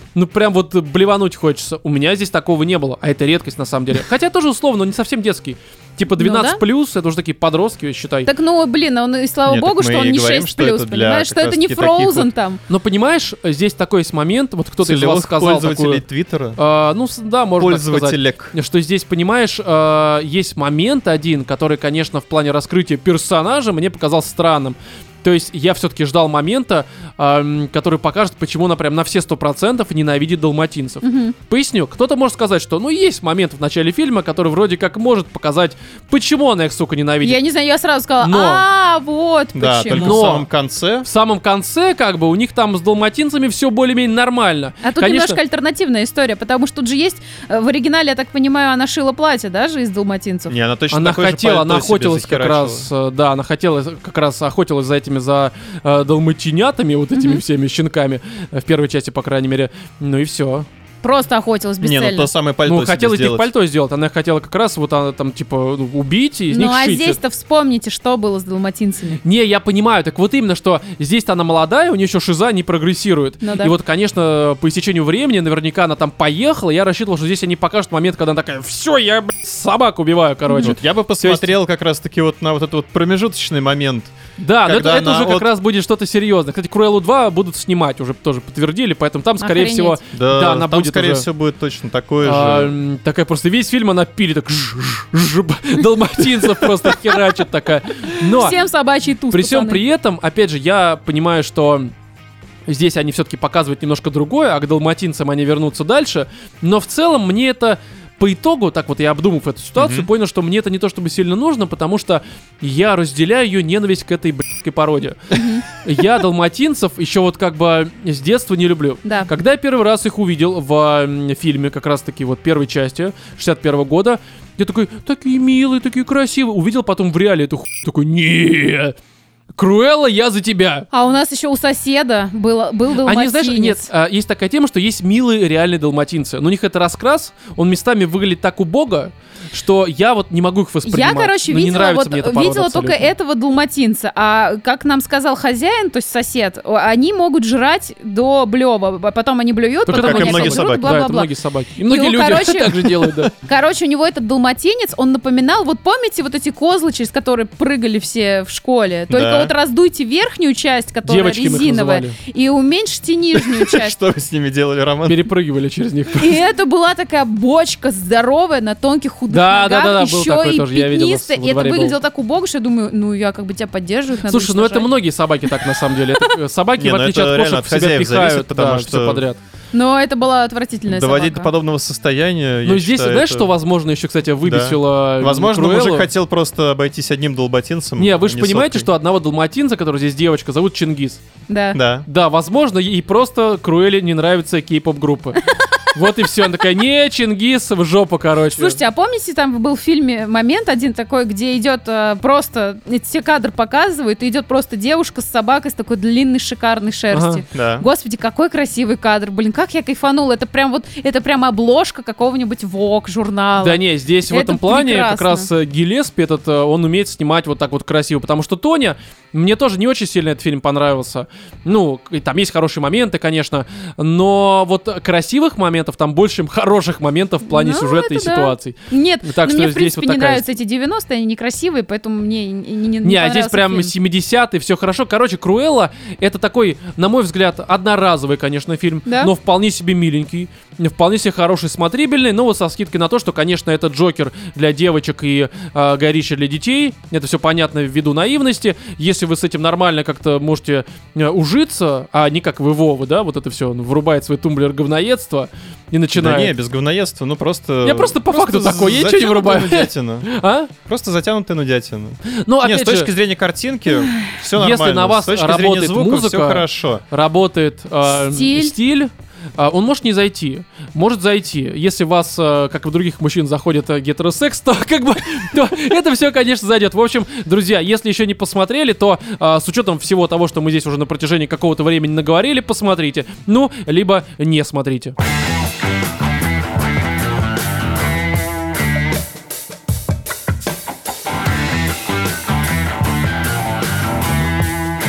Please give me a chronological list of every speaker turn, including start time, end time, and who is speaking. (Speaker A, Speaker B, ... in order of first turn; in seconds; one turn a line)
Speaker A: 0.1-8.3
Speaker B: 6.2-6.6
Speaker B: 8.3-12.6
Speaker C: 9.5-12.3
Speaker A: 12.7-16.0
Speaker C: 14.8-16.6
Speaker A: 16.6-37.4
Speaker C: 17.6-18.5
Speaker B: 31.0-31.4
Speaker B: 37.2-40.3
Speaker A: 38.2-38.6
Speaker C: 39.5-41.1
Speaker A: 39.9-40.5
Speaker A: 41.0-45.4
Speaker B: 44.8-50.5
Speaker C: 50.5-52.9
Speaker A: 50.9-60.7
Speaker B: 57.1-57.4
Speaker B: 61.0-62.3
Speaker C: 61.8-63.5
Speaker A: 62.6-67.2
Speaker B: 66.5-69.2
Speaker A: 69.2-81.5
Speaker B: 73.4-73.7
Speaker C: 80.6-85.5
Speaker A: 84.4-91.3
Speaker B: 89.4-90.0
Speaker C: 90.1-92.7
Speaker A: 92.2-98.6
Speaker B: 98.2-99.8
Speaker A: 99.3-101.9
Speaker A: 102.7-128.9
Speaker C: 109.8-110.1
Speaker B: 115.3-115.7
Speaker B: 119.0-119.3
Speaker A: 129.6-130.9
Speaker B: 130.9-133.9
Speaker A: 133.0-143.1
Speaker B: 140.8-151.3
Speaker A: 149.9-153.3
Speaker C: 149.9-151.0
Speaker B: 151.8-164.0
Speaker C: 159.1-159.5
Speaker A: 161.1-162.2
Speaker C: 163.4-165.3
Speaker A: 165.1-166.4
Speaker B: 166.2-174.9
Speaker A: 169.3-172.0
Speaker A: 174.3-179.4
Speaker C: 176.8-179.2
Speaker B: 179.7-181.5
Speaker C: 180.9-183.5
Speaker A: 182.7-186.1
Speaker C: 184.4-188.9
Speaker A: 188.0-191.2
Speaker B: 191.5-191.8
Speaker C: 191.7-192.1
Speaker A: 192.1-198.8
Speaker B: 198.6-215.5
Speaker A: 207.1-207.4
Speaker C: 207.5-207.9
Speaker A: 213.6-230.4
Speaker B: 227.4-233.9
Speaker A: 233.0-256.5
Speaker B: 239.1-239.3
Speaker C: 256.1-260.3
Speaker A: 257.8-260.7
Speaker C: 260.9-267.0
Speaker A: 262.3-263.1
Speaker A: 264.6-285.1
Speaker B: 268.1-268.8